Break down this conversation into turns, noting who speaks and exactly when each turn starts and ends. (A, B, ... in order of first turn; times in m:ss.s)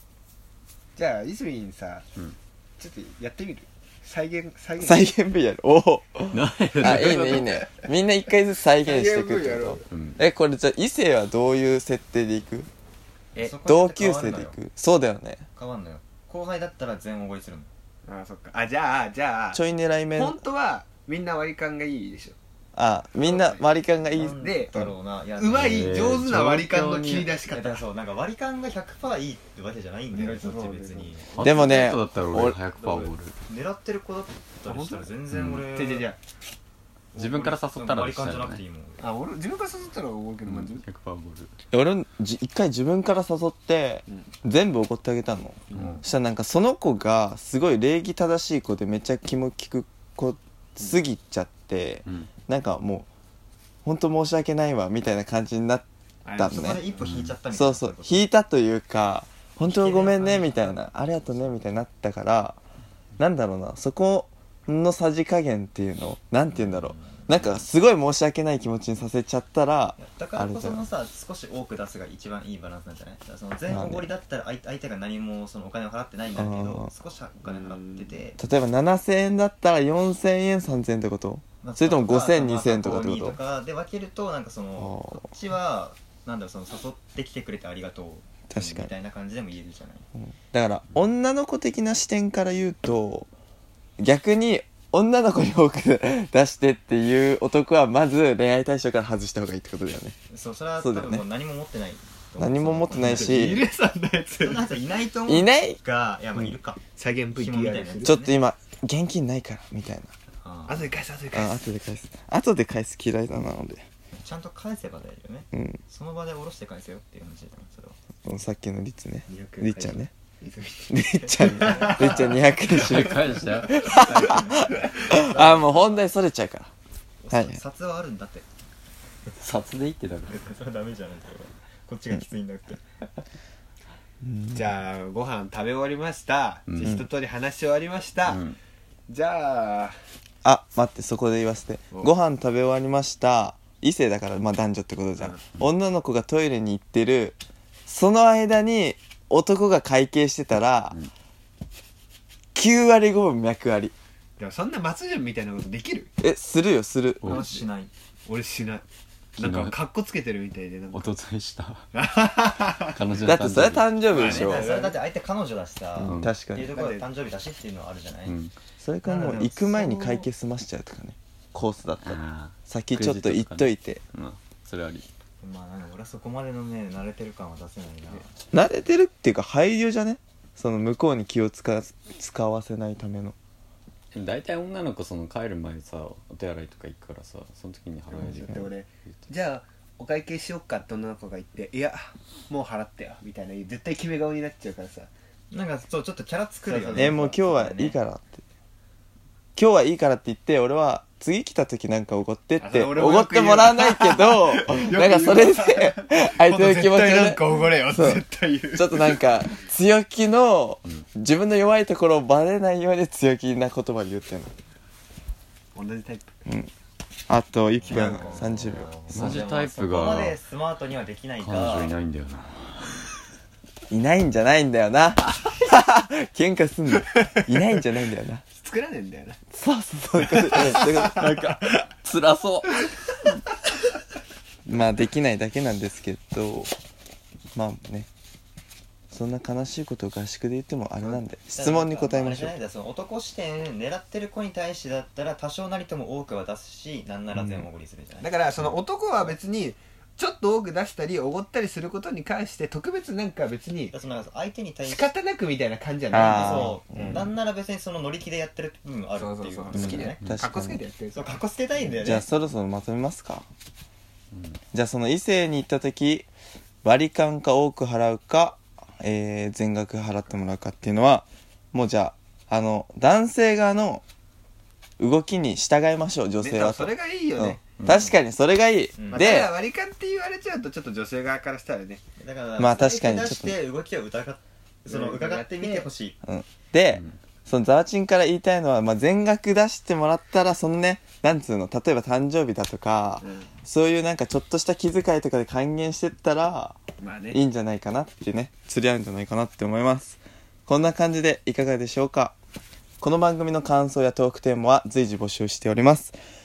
0:01.0-0:02.1 A
0:02.8-0:05.1 A
0:04.8-0:12.7 B
0:06.3-0:07.6 C
0:07.0-0:07.4 A
0:08.8-0:09.9 A
0:09.9-0:10.2 C
0:13.4-0:14.6 D
0:13.6-0:15.4 B
0:15.6-0:17.7 D
0:18.0-0:19.6 A
0:19.5-0:20.4 B
0:20.1-0:22.4 A
0:22.7-0:24.4 B
0:23.2-0:23.6 A
0:24.1-0:26.2 D
0:24.2-0:27.8 A
0:25.5-0:27.3 C
0:27.5-0:31.6 D
0:30.1-0:31.5 A
0:31.4-0:33.4 C
0:31.4-0:32.6 B
0:32.8-0:36.1 D
0:34.6-0:35.1 A
0:35.3-0:35.6 C
0:35.7-0:36.2 A
0:37.1-0:39.1 D
0:37.2-0:38.6 C
0:39.0-0:40.8 A
0:40.4-0:41.5 C
0:41.7-0:53.1 B
0:45.7-0:46.0 A
0:45.8-0:46.0 C
0:53.8-0:56.9 B
0:56.2-0:56.8 A
0:56.4-0:58.3 D
0:57.0-0:57.4 C
0:57.5-1:02.6 B
0:59.6-1:00.8 D
1:03.2-1:10.8 B
1:06.5-1:07.6 D
1:10.0-1:18.4 D
1:13.7-1:14.1 B
1:16.3-1:16.9 B
1:17.4-1:18.1 A
1:18.4-1:23.4 B
1:21.6-1:30.1 D
1:24.8-1:25.3 B
1:28.5-1:28.9 B
1:30.2-1:33.3 B
1:34.0-1:40.2 B
1:40.3-1:43.6 D
1:40.8-1:41.2 B
1:42.4-1:43.6 B
1:43.0-1:44.8 A
1:44.4-1:46.8 D
1:45.3-1:45.8 B
1:47.0-1:48.1 A
1:47.3-1:48.4 D
1:48.0-1:50.1 B
1:50.4-1:50.9 D
1:50.7-1:51.7 A
1:51.3-1:53.8 B
1:54.1-1:58.0 D
1:55.5-1:55.8 B
1:58.2-2:00.1 B
1:59.3-2:02.4 A
2:00.9-2:06.7 B
2:01.1-2:02.4 D
2:02.5-2:04.6 C
2:03.7-2:06.0 D
2:07.2-2:08.5 D
2:07.3-2:07.6 B
2:09.4-2:10.4 C
2:10.3-2:12.8 D
2:14.2-2:14.7 B
2:14.5-2:18.5 A
2:16.7-2:17.0 C
2:18.2-2:18.6 C
2:19.1-2:20.0 A
2:20.4-2:31.0 B
2:32.6-2:33.9 B
2:34.4-2:36.1 A
2:36.2-2:37.4 B
2:37.2-2:37.5 C
2:37.2-2:37.9 D
2:37.3-2:37.6 A
2:38.3-2:38.8 A
2:39.4-2:39.8 C
2:39.4-2:41.1 A
2:40.9-2:41.9 C
2:41.9-2:43.0 A
2:42.9-2:43.9 C
2:43.2-2:44.7 B
2:44.1-2:45.0 A
2:44.1-2:48.4 D
2:46.0-2:46.8 B
2:46.0-2:46.4 C
2:46.7-2:47.0 A
2:48.3-2:48.6 C
2:48.8-2:54.0 B
2:49.0-2:50.3 D
2:52.0-2:55.1 C
2:55.4-2:58.3 D
2:58.5-3:03.4 B
3:04.1-3:09.3 C
3:08.1-3:15.1 A
3:15.5-3:18.0 D
3:16.6-3:17.2 A
3:16.9-3:18.4 B
3:19.6-3:34.5 B
3:22.6-3:29.3 A
3:35.7-3:36.3 A
3:37.3-3:39.3 B
3:37.8-3:42.0 D
3:37.9-3:38.4 A
3:39.1-3:40.4 C
3:41.4-3:43.1 C
3:43.9-3:48.4 B
3:47.0-3:47.5 A
3:48.6-3:49.4 A
3:49.5-3:51.3 B
3:50.2-3:51.2 A
3:51.1-3:53.4 C
3:54.7-3:56.7 B
3:57.6-3:58.1 B
3:59.1-4:02.5 B
4:01.0-4:09.4 D
4:07.3-4:07.7 B
4:08.2-4:14.0 A
4:13.9-4:15.1 D
4:14.8-4:17.3 A
4:16.1-4:17.3 B
4:16.1-4:20.2 D
4:19.2-4:21.4 A
4:19.7-4:20.8 B
4:21.1-4:22.3 D
4:22.0-4:23.5 B
4:24.3-4:24.6 C
4:24.7-4:26.3 B
4:26.8-4:34.0 B
4:35.0-4:39.6 B
4:36.4-4:37.7 A
4:37.8-4:38.2 C
4:39.0-4:39.4 D
4:39.1-4:42.0 A
4:42.2-4:46.2 D
4:42.6-4:43.6 B
4:44.9-4:45.9 A
4:46.2-4:56.8 B
4:53.2-4:53.5 A
4:57.0-4:57.4 A
4:57.3-5:02.4 B
5:03.0-5:06.2 B